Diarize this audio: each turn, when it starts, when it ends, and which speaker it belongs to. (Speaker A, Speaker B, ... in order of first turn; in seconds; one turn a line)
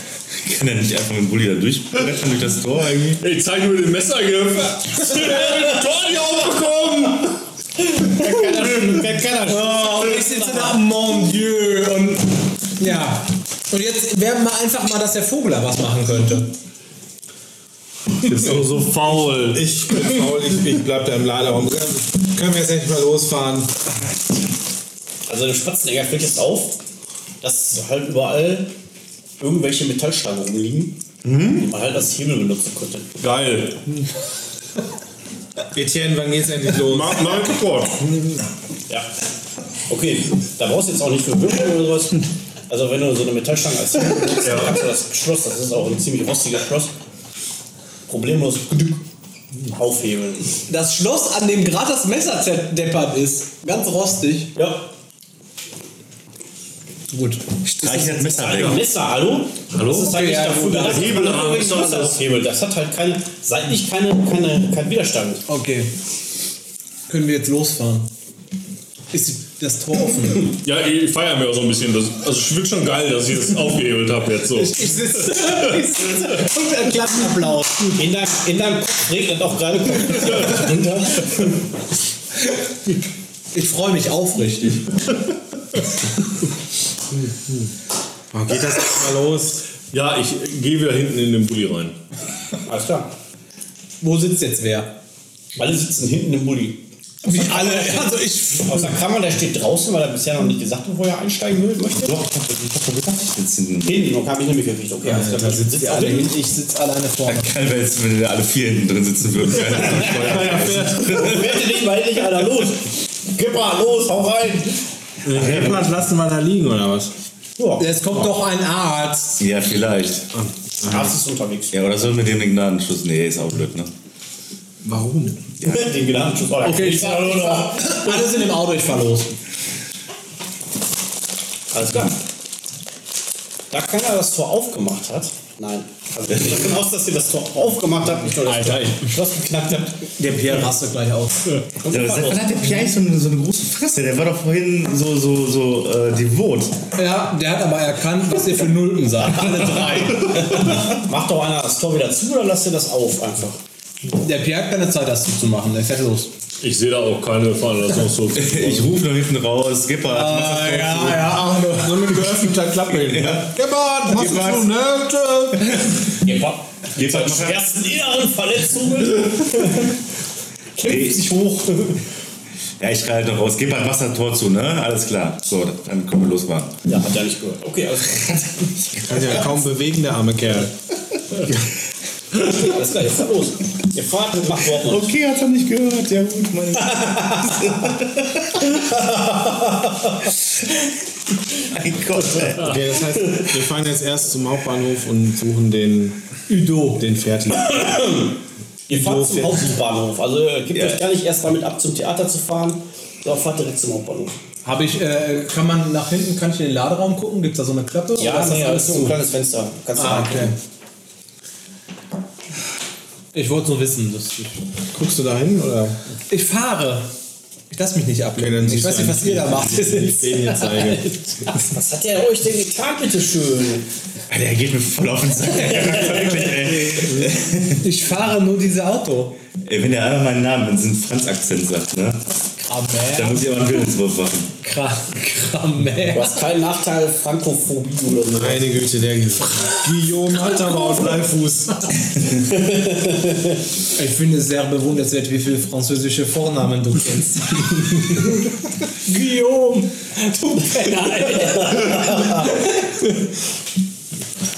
Speaker A: 0.4-3.2
Speaker B: 3.2-7.2
Speaker C: 5.0-5.7
Speaker D: 7.8-10.9
Speaker C: 9.5-16.5
Speaker B: 18.2-19.6
Speaker E: 19.4-23.8
Speaker D: 25.3-26.8
Speaker D: 27.4-28.7
Speaker D: 29.4-31.0
Speaker B: 31.2-31.7
Speaker D: 31.5-33.2
Speaker B: 33.2-34.0
Speaker E: 35.7-37.4
Speaker B: 36.8-38.3
Speaker D: 39.9-46.9
Speaker B: 44.4-44.8
Speaker D: 48.1-49.0
Speaker D: 49.7-50.5
Speaker C: 50.7-54.5
Speaker D: 54.5-54.9
Speaker C: 57.1-58.4
Speaker A: 57.6-58.9
Speaker D: 58.4-65.4
Speaker B: 59.7-60.1
Speaker C: 59.8-61.4
Speaker B: 60.7-62.2
Speaker C: 65.5-65.9
Speaker C: 67.1-68.1
Speaker C: 69.1-70.5
Speaker B: 70.6-75.5
Speaker C: 74.5-77.9
Speaker D: 77.9-81.7
Speaker C: 83.5-85.0
Speaker E: 88.3-89.6
Speaker B: 89.9-92.0
Speaker D: 92.7-93.1
Speaker C: 94.0-94.9
Speaker D: 95.5-102.2
Speaker C: 97.2-99.0
Speaker A: 102.0-104.1
Speaker D: 103.8-106.3
Speaker C: 105.0-107.6
Speaker A: 107.3-111.8
Speaker E: 109.7-111.4
Speaker D: 110.9-114.8
Speaker E: 115.2-117.1
Speaker A: 115.3-115.9
Speaker D: 117.6-118.3
Speaker C: 117.8-119.4
Speaker A: 119.4-120.3
Speaker E: 120.4-121.0
Speaker D: 120.8-121.7
Speaker A: 121.7-123.9
Speaker E: 124.8-125.5
Speaker A: 125.6-126.0
Speaker D: 125.6-128.2
Speaker C: 126.6-129.3
Speaker D: 131.7-132.2
Speaker D: 133.7-140.1
Speaker C: 140.2-141.6
Speaker D: 141.8-142.8
Speaker A: 141.9-146.8
Speaker C: 147.0-150.7
Speaker D: 150.2-153.6
Speaker C: 154.2-156.3
Speaker B: 156.6-159.0
Speaker A: 158.3-161.1
Speaker C: 160.0-162.5
Speaker E: 161.1-165.9
Speaker A: 163.0-163.6
Speaker D: 166.2-170.0
Speaker A: 166.9-167.6
Speaker D: 170.8-172.0
Speaker A: 170.8-171.3
Speaker A: 172.8-176.7
Speaker D: 176.9-178.7
Speaker A: 178.2-179.3
Speaker E: 179.0-180.7
Speaker D: 182.3-185.1
Speaker A: 184.8-188.8
Speaker D: 186.9-187.7
Speaker D: 188.8-189.9
Speaker A: 191.7-192.8
Speaker E: 192.6-196.2
Speaker C: 196.5-197.1
Speaker E: 196.9-198.2
Speaker D: 197.7-204.4
Speaker E: 198.9-199.8
Speaker A: 200.7-201.1
Speaker C: 204.7-209.2
Speaker D: 208.2-210.6
Speaker C: 209.9-210.6
Speaker C: 213.3-214.6
Speaker E: 214.9-216.0
Speaker C: 216.3-217.1
Speaker C: 217.7-221.6
Speaker E: 218.4-221.1
Speaker D: 221.5-223.9
Speaker A: 224.3-227.8
Speaker D: 225.5-226.9
Speaker C: 227.8-229.4
Speaker A: 229.6-232.2
Speaker C: 232.7-233.9
Speaker A: 233.1-234.5
Speaker C: 234.6-236.4
Speaker D: 236.1-238.7
Speaker E: 238.3-241.9
Speaker C: 240.4-241.2
Speaker D: 242.5-243.6
Speaker C: 243.9-248.2
Speaker C: 249.1-252.7
Speaker D: 250.7-252.7